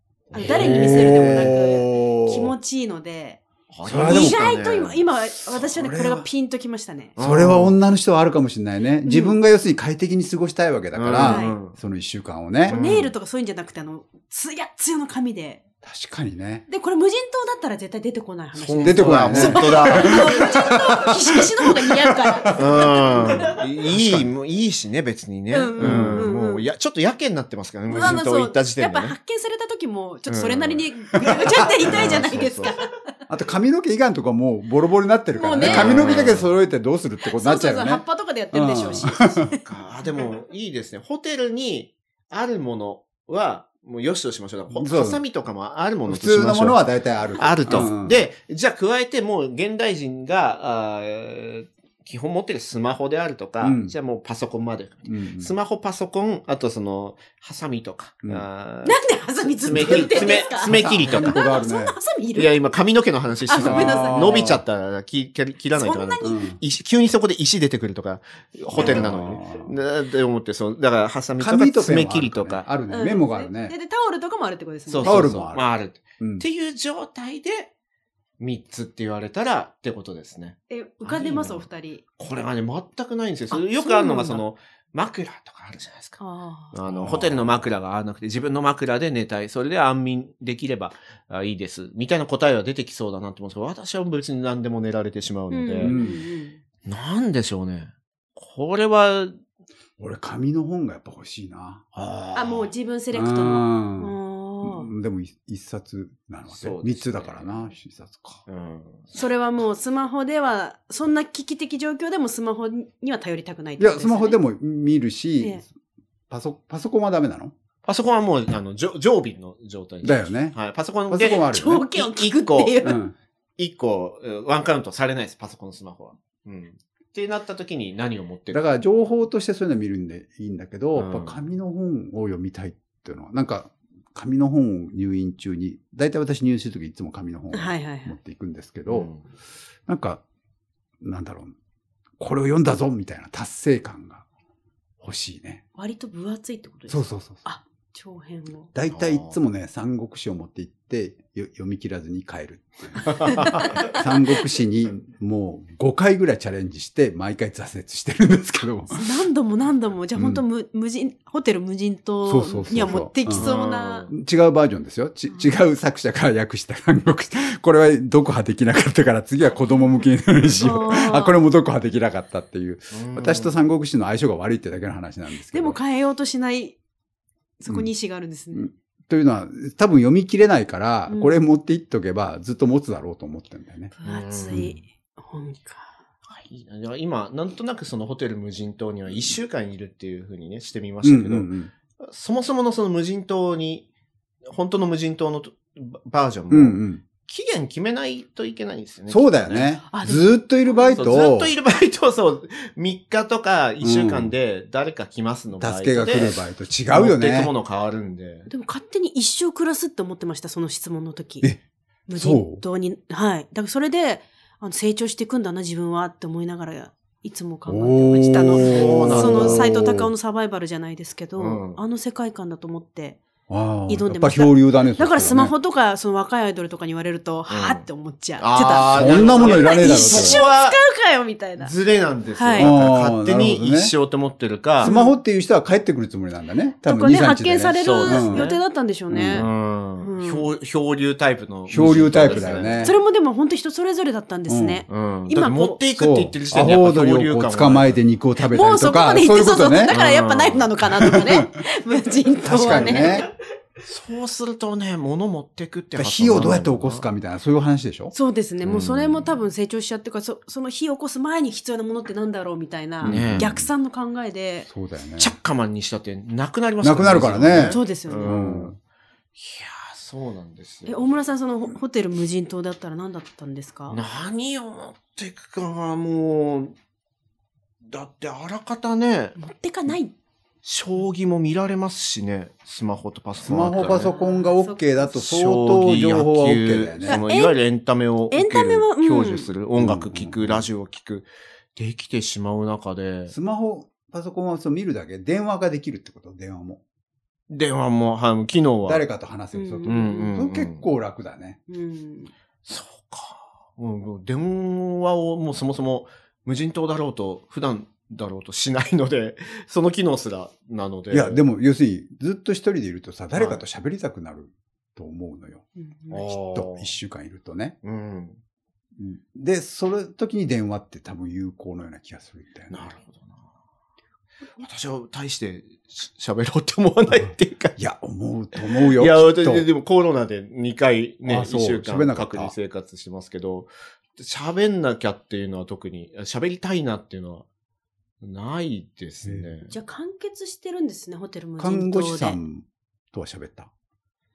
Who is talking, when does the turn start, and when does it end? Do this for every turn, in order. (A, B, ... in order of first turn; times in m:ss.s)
0:00.3-0:01.5 A
0:00.3-0:03.4 B
0:00.4-0:02.5 C
0:03.7-0:05.0 A
0:03.8-0:04.5 C
0:04.0-0:07.2 B
0:05.6-0:06.3 C
0:07.2-0:07.8 A
0:07.2-0:12.8 C
0:09.0-0:09.4 B
0:10.9-0:11.8 A
0:11.2-0:11.6 B
0:12.7-0:15.6 B
0:12.7-0:13.1 A
0:15.8-0:16.6 C
0:16.7-0:23.5 B
0:18.5-0:20.5 A
0:18.8-0:24.3 C
0:22.6-0:29.2 A
0:25.5-0:26.6 B
0:25.8-0:26.3 C
0:27.9-0:33.0 B
0:30.3-0:30.9 A
0:31.3-0:32.4 C
0:31.8-0:32.7 A
0:33.3-0:39.5 C
0:35.4-0:36.3 B
0:35.6-0:36.5 A
0:37.3-0:39.6 B
0:39.5-0:46.8 A
0:44.7-0:45.2 C
0:46.1-0:48.2 C
0:47.4-0:59.0 A
0:53.6-0:53.9 C
0:55.1-0:55.5 C
0:58.8-1:02.6 B
0:59.6-1:01.4 A
0:59.7-1:02.0 C
1:02.4-1:12.7 A
1:03.5-1:04.5 B
1:03.6-1:04.6 C
1:05.8-1:06.4 B
1:06.2-1:06.6 C
1:08.7-1:09.7 C
1:08.8-1:09.1 B
1:11.4-1:13.7 C
1:12.9-1:15.3 B
1:14.9-1:17.7 A
1:15.0-1:15.7 C
1:16.2-1:16.4 C
1:18.4-1:21.7 A
1:20.7-1:22.0 B
1:22.2-1:26.2 A
1:23.5-1:24.4 B
1:26.2-1:26.8 B
1:26.7-1:36.0 A
1:26.9-1:27.7 C
1:35.5-1:36.6 B
1:35.8-1:36.2 C
1:36.9-1:39.4 A
1:40.0-1:41.9 C
1:42.0-1:42.7 A
1:42.3-1:44.9 B
1:43.1-1:48.4 C
1:46.5-1:47.7 A
1:48.5-1:49.2 A
1:49.1-1:54.4 B
1:53.8-1:55.7 C
1:56.3-1:57.5 C
1:57.8-2:02.9 A
2:00.0-2:00.6 C
2:01.1-2:01.9 C
2:01.4-2:03.0 B
2:02.8-2:03.1 C
2:03.6-2:08.6 A
2:08.5-2:19.1 C
2:11.0-2:11.4 A
2:17.5-2:18.2 B
2:18.9-2:19.2 A
2:19.9-2:20.2 C
2:21.0-2:21.6 C
2:22.2-2:24.2 C
2:25.0-2:25.6 C
2:25.8-2:28.7 B
2:26.9-2:27.4 C
2:28.7-2:39.1 C
2:28.9-2:29.4 A
2:33.0-2:33.8 A
2:33.3-2:33.9 B
2:38.9-2:44.1 B
2:40.2-2:40.4 C
2:42.2-2:43.5 C
2:43.3-2:44.1 A
2:44.1-2:55.8 C
2:50.6-2:51.4 B
2:52.9-2:53.6 A
2:55.5-2:56.8 B
2:57.6-2:58.7 B
2:58.5-3:03.9 C
3:01.1-3:01.4 B
3:04.0-3:06.0 B
3:04.0-3:04.8 A
3:04.5-3:04.8 C
3:06.3-3:13.9 A
3:11.0-3:11.7 C
3:14.5-3:19.8 A
3:16.5-3:17.0 C
3:19.1-3:21.5 C
3:19.9-3:21.1 B
3:20.9-3:26.4 A
3:23.8-3:24.3 C
3:25.6-3:27.5 C
3:26.9-3:28.5 A
3:28.5-3:31.5 B
3:32.1-3:43.2 B
3:32.2-3:32.6 C
3:37.7-3:40.1 C
3:38.5-3:39.6 A
3:41.4-3:41.8 A
3:43.5-3:45.6 C
3:43.9-3:51.7 B
3:47.5-3:47.8 A
3:48.4-3:50.8 A
3:48.8-3:50.4 C
3:51.6-3:54.9 A
3:52.4-3:52.7 B
3:52.6-3:53.9 C
3:54.8-3:58.5 C
3:54.8-3:55.2 B
3:56.8-4:00.5 B
3:57.8-3:58.6 A
3:59.1-3:59.5 C
3:59.3-4:03.0 A
4:01.7-4:03.0 C
4:02.8-4:05.8 B
4:04.5-4:04.8 C
4:04.9-4:08.0 A
4:06.0-4:10.0 C
4:08.4-4:13.2 B
4:09.9-4:10.7 A
4:10.9-4:11.5 C
4:12.4-4:13.3 C
4:13.8-4:17.1 A
4:16.0-4:18.1 C
4:18.1-4:24.7 B
4:18.6-4:19.3 A
4:23.0-4:23.7 C
4:23.0-4:23.5 A
4:24.7-4:25.3 C
4:25.2-4:28.8 A
4:26.8-4:28.8 C
4:27.7-4:28.4 B
4:29.4-4:31.1 A
4:30.9-4:34.0 B
4:33.9-4:36.8 A
4:37.9-4:39.4 A
4:39.4-4:40.1 B
4:40.6-4:44.1 A
4:43.4-4:47.2 C
4:43.8-4:45.0 B
4:45.1-4:53.3 A
4:47.1-4:47.6 B
4:48.3-4:49.5 B
4:49.8-4:50.7 C
4:53.3-4:56.8 C
4:57.5-4:59.0 A
4:58.9-5:01.6 C
4:59.5-5:00.3 B
4:59.9-5:00.9 A
5:01.7-5:02.3 B
5:02.7-5:11.4 A
5:11.1-5:15.6 C
5:13.4-5:13.6 A
5:15.8-5:16.2 B
5:16.1-5:17.0 A
5:16.3-5:17.8 C
5:17.8-5:18.4 A
5:19.0-5:22.8 C
5:22.7-5:23.4 A
5:24.6-5:27.8 A
5:27.8-5:29.7 C
5:28.8-5:37.5 A
5:31.2-5:32.6 C
5:38.2-5:39.7 A
5:39.7-5:42.4 B
5:41.6-5:43.7 C